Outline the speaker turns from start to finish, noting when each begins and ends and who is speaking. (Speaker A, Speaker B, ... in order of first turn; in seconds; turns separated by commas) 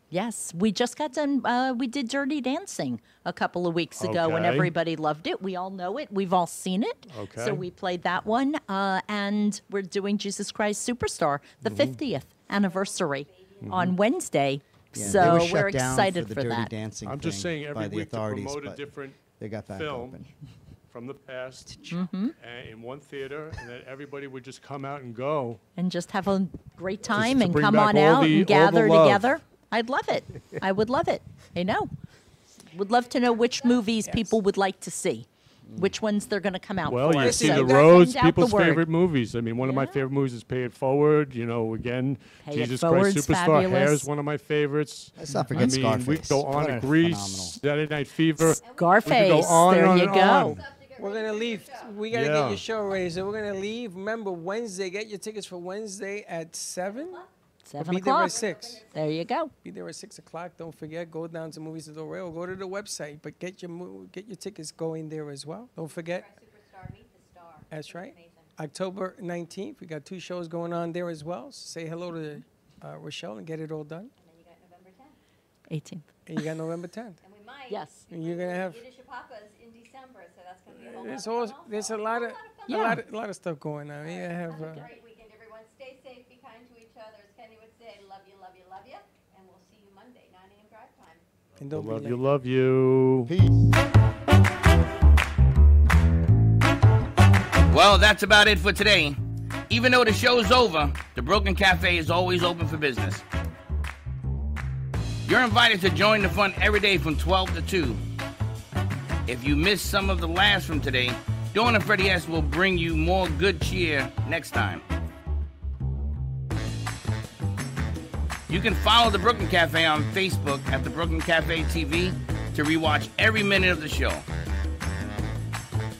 Speaker A: 0.1-16.7, Speaker B: 4.0-4.7, Speaker B: 7.1-7.6, Speaker C: 12.7-13.5, Speaker D: 14.9-18.8, Speaker B: 17.0-20.2, Speaker D: 19.4-20.2, Speaker B: 20.9-21.8, Speaker A: 21.9-22.4, Speaker B: 22.4-25.6, Speaker A: 25.8-31.9, Speaker B: 27.1-29.3, Speaker A: 32.7-38.9, Speaker E: 34.0-34.4, Speaker D: 35.7-36.0, Speaker B: 36.9-50.6, Speaker E: 37.1-38.0, Speaker A: 39.6-40.0, Speaker A: 42.4-44.1, Speaker D: 45.2-47.6, Speaker A: 48.4-50.5, Speaker C: 48.6-49.7, Speaker C: 50.4-52.0, Speaker E: 51.0-57.2, Speaker B: 52.1-52.6, Speaker C: 56.8-57.3, Speaker A: 57.6-59.5, Speaker E: 57.8-58.9, Speaker C: 58.2-58.9, Speaker E: 59.6-66.3, Speaker C: 65.8-68.5, Speaker E: 67.7-74.1, Speaker C: 74.2-75.1, Speaker A: 75.7-76.5, Speaker E: 76.2-77.2, Speaker C: 77.2-82.9, Speaker A: 77.7-78.1, Speaker E: 78.1-78.8, Speaker E: 80.7-84.8, Speaker A: 82.7-83.0, Speaker C: 84.0-91.2, Speaker A: 84.5-84.8, Speaker E: 91.6-92.2, Speaker B: 91.7-93.3, Speaker D: 93.2-93.5, Speaker F: 97.7-99.2, Speaker F: 99.7-103.2, Speaker F: 105.2-108.0, Speaker F: 109.3-114.8, Speaker F: 118.5-124.2